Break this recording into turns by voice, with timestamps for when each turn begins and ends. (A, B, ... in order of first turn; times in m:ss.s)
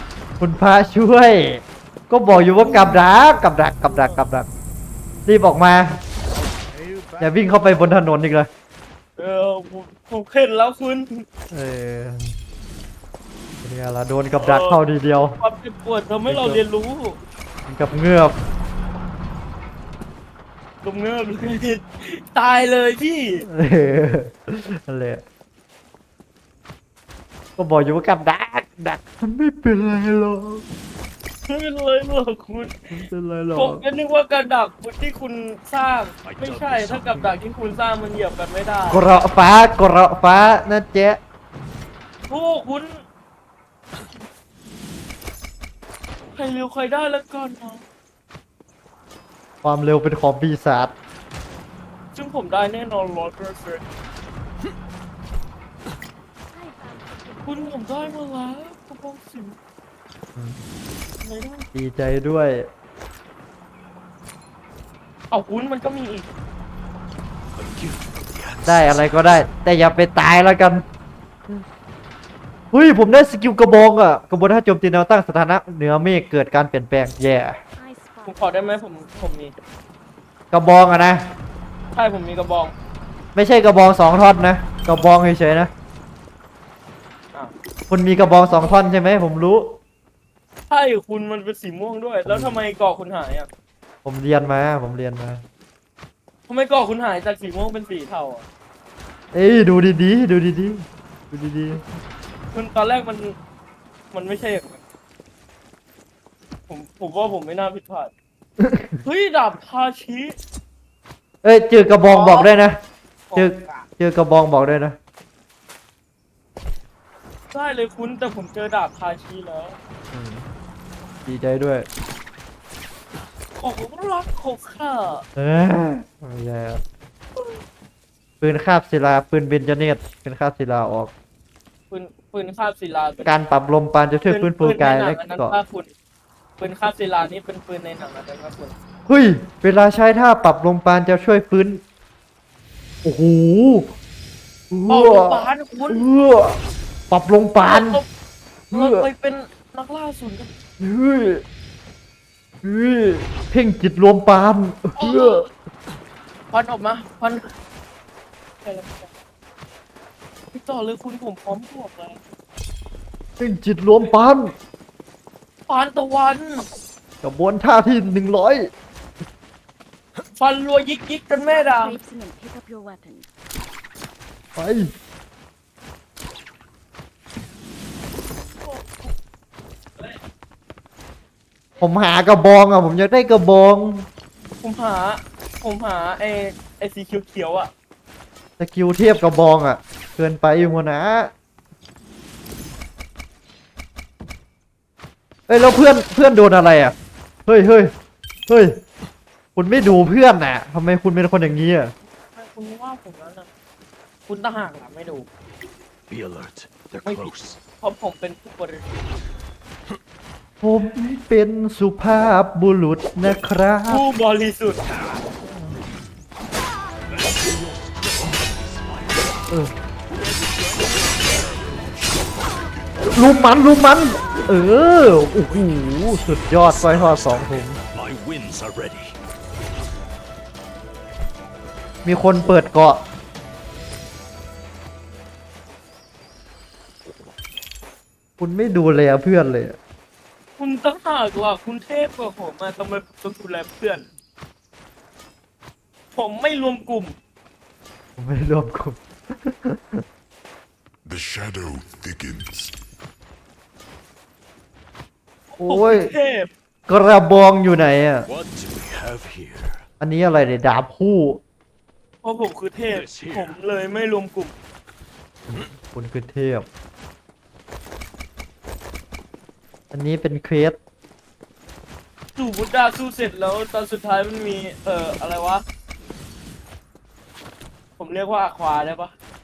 0:00.4-0:04.5 A
0:02.6-0:03.1 B
0:03.8-0:04.2 B
0:05.2-0:06.0 A
0:07.2-0:08.5 A
0:09.2-0:11.2 B
0:11.5-0:12.3 A
0:13.6-0:15.4 A
0:14.4-0:14.8 B
0:15.4-0:17.2 B
0:16.2-0:16.6 A
0:17.7-0:18.3 A
0:20.8-0:23.4 B
0:23.4-0:25.2 A
0:27.6-0:30.6 A
0:31.5-0:32.7 B
0:32.9-0:33.8 A
0:33.5-0:39.0 B
0:36.2-0:37.4 C
0:38.9-0:41.2 A
0:42.3-0:43.0 B
0:46.3-0:47.8 B
0:49.6-0:50.9 A
0:52.1-0:53.8 B
0:56.5-0:58.3 D
0:57.4-0:59.6 B
1:00.3-1:00.6 A
1:01.2-1:01.6 B
1:01.7-1:02.7 A
1:05.3-1:06.3 B
1:07.6-1:09.3 C
1:08.6-1:10.8 A
1:12.7-1:17.6 A
1:17.8-1:19.3 D
1:18.2-1:19.5 B
1:20.5-1:21.3 A
1:21.9-1:22.7 B
1:23.3-1:25.7 A
1:27.9-1:29.8 A
1:28.3-1:28.5 D
1:30.7-1:33.5 B
1:32.2-1:32.6 A
1:34.0-1:35.4 A
1:36.5-1:38.4 B
1:39.3-1:41.9 A
1:42.5-1:43.4 B
1:44.1-1:44.8 B
1:46.7-1:48.1 B
1:48.6-1:49.0 A
1:49.0-1:50.4 B
1:51.4-1:52.8 A
1:52.0-1:52.5 B
1:53.3-1:53.9 B
1:53.3-1:55.0 A
1:57.5-1:59.8 B
2:00.1-2:00.4 A
2:01.2-2:01.9 A
2:03.6-2:05.2 B
2:05.4-2:06.8 A
2:08.4-2:11.1 A
2:11.9-2:13.3 B
2:13.2-2:15.6 A
2:14.3-2:15.9 B
2:16.6-2:18.7 B
2:19.1-2:21.8 A
2:23.0-2:23.9 A
2:24.7-2:26.6 A
2:24.9-2:26.0 B
2:27.1-2:28.0 A
2:27.6-2:28.1 B
2:28.7-2:29.1 A
2:28.7-2:30.5 B
2:30.8-2:31.4 A
2:32.6-2:35.5 A
2:35.0-2:35.5 B
2:36.5-2:37.5 B
2:38.6-2:39.1 B
2:40.5-2:42.2 B
2:43.4-2:44.5 A
2:45.7-2:46.7 B
2:47.2-2:48.7 A
2:50.3-2:52.0 B
2:51.4-2:53.2 D
2:54.6-2:54.9 A
2:58.6-2:59.1 B
3:01.8-3:04.1 A
3:04.6-3:07.7 B
3:08.6-3:11.3 A
3:15.5-3:16.9 A
3:17.4-3:17.9 A
3:18.5-3:18.8 A
3:19.5-3:21.9 A
3:22.2-3:23.5 B
3:24.3-3:25.2 B
3:26.1-3:27.6 C
3:27.0-3:28.8 B
3:30.6-3:34.0 A
3:33.9-3:34.8 B
3:35.4-3:35.7 A
3:37.1-3:39.5 C
3:40.7-3:43.8 E
3:43.1-3:47.8 A
3:45.4-3:49.1 C
3:52.0-3:53.0 A
3:58.4-3:59.8 A
4:00.6-4:04.0 B
4:06.1-4:07.1 B
4:08.2-4:10.0 A
4:11.0-4:12.7 E
4:15.5-4:16.5 B
4:15.6-4:16.1 A
4:16.9-4:18.3 A
4:18.2-4:19.8 C
4:20.0-4:21.4 A
4:22.2-4:24.5 B
4:22.9-4:23.6 C
4:25.5-4:26.7 A
4:29.9-4:30.8 A
4:32.4-4:35.6 B
4:38.0-4:39.1 B